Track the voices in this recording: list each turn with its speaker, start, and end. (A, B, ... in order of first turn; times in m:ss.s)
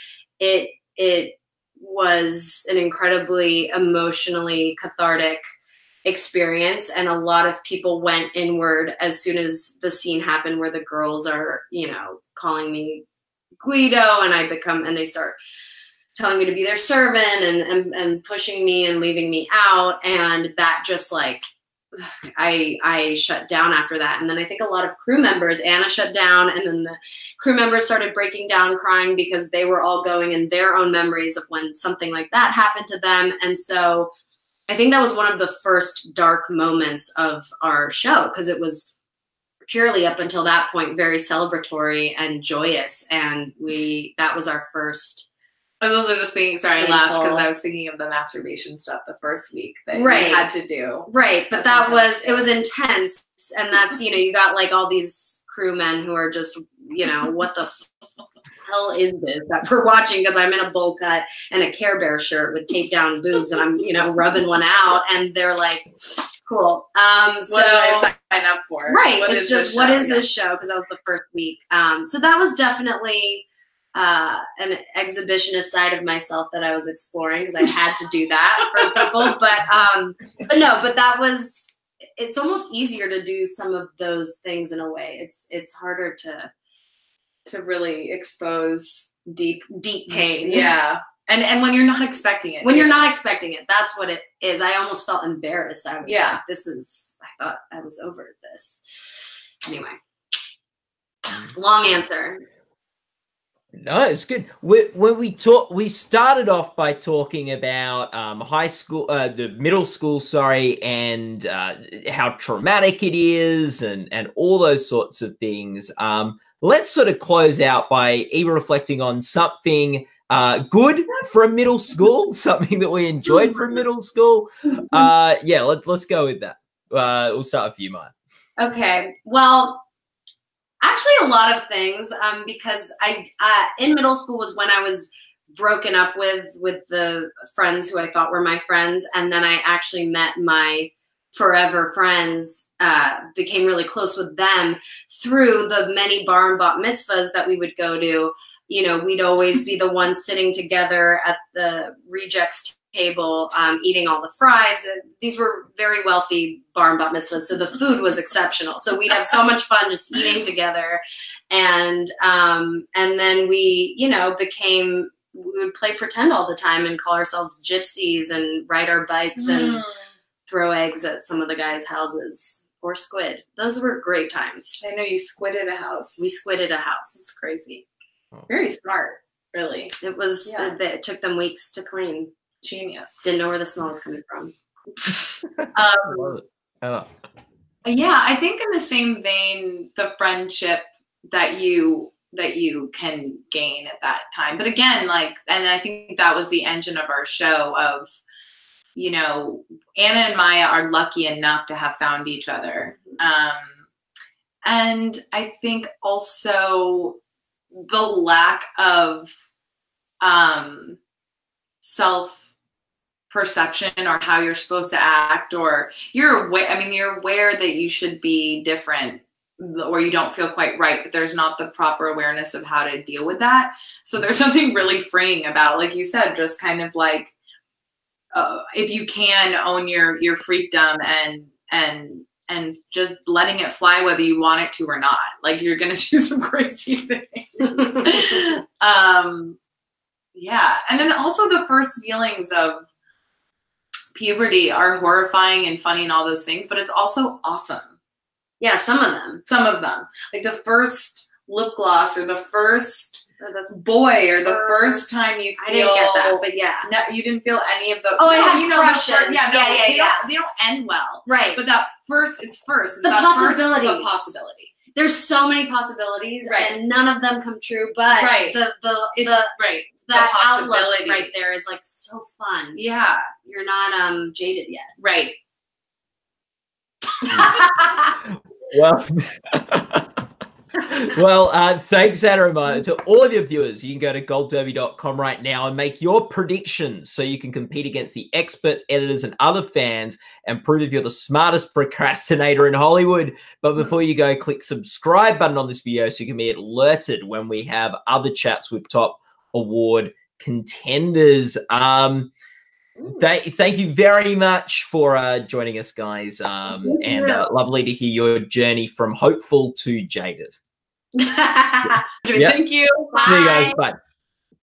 0:00.4-0:05.4 A
0:06.0-0:13.0 A
0:13.6-0:15.4 A
0:16.1-0:34.1 A
0:34.7-0:38.9 A
0:39.7-0:45.3 A
0:45.8-0:52.5 B
0:46.8-0:47.4 A
0:49.9-0:50.5 A
0:51.1-0:57.8 A
0:58.6-1:05.9 A
1:06.4-1:08.1 A
1:07.5-1:10.2 B
1:08.9-1:26.5 A
1:27.5-1:33.0 B
1:29.8-1:30.7 A
1:32.6-1:38.8 A
1:36.0-1:36.4 B
1:39.7-1:40.0 A
1:41.3-1:42.4 A
1:43.8-2:08.1 C
2:08.6-2:09.8 A
2:10.8-2:49.8 A
2:49.4-2:50.0 B
2:50.5-2:54.8 A
2:54.8-2:56.3 B
2:56.2-2:57.2 A
2:57.2-2:57.8 B
2:58.5-2:59.9 B
3:00.0-3:02.3 A
3:00.5-3:00.8 B
3:02.6-3:03.2 B
3:03.2-3:04.5 A
3:05.6-3:07.1 C
3:05.8-3:06.4 B
3:07.8-3:18.1 B
3:19.0-3:23.8 B
3:24.6-3:27.2 B
3:27.7-3:29.3 B
3:30.2-3:31.0 B
3:31.8-3:32.4 B
3:33.3-3:47.3 B
3:48.4-3:59.6 B
4:00.4-4:02.8 B
4:04.2-4:07.9 B
4:08.6-4:09.4 A
4:09.5-4:24.7 B
4:13.4-4:13.8 A
4:14.4-4:16.9 A
4:18.2-4:20.2 A
4:21.3-4:21.6 A
4:23.0-4:24.3 A
4:24.9-4:32.8 A
4:26.5-4:26.8 B
4:28.2-4:28.6 B
4:29.2-4:31.3 B
4:32.8-4:33.2 B
4:33.4-4:34.9 A
4:35.0-4:35.4 B
4:37.3-4:37.6 C
4:37.3-4:37.9 A
4:38.3-4:40.1 C
4:40.8-5:02.3 C
5:03.1-5:10.6 C
5:06.8-5:07.4 A
5:11.2-5:12.0 A
5:12.2-5:13.6 B
5:13.1-5:13.8 A
5:13.2-5:14.0 C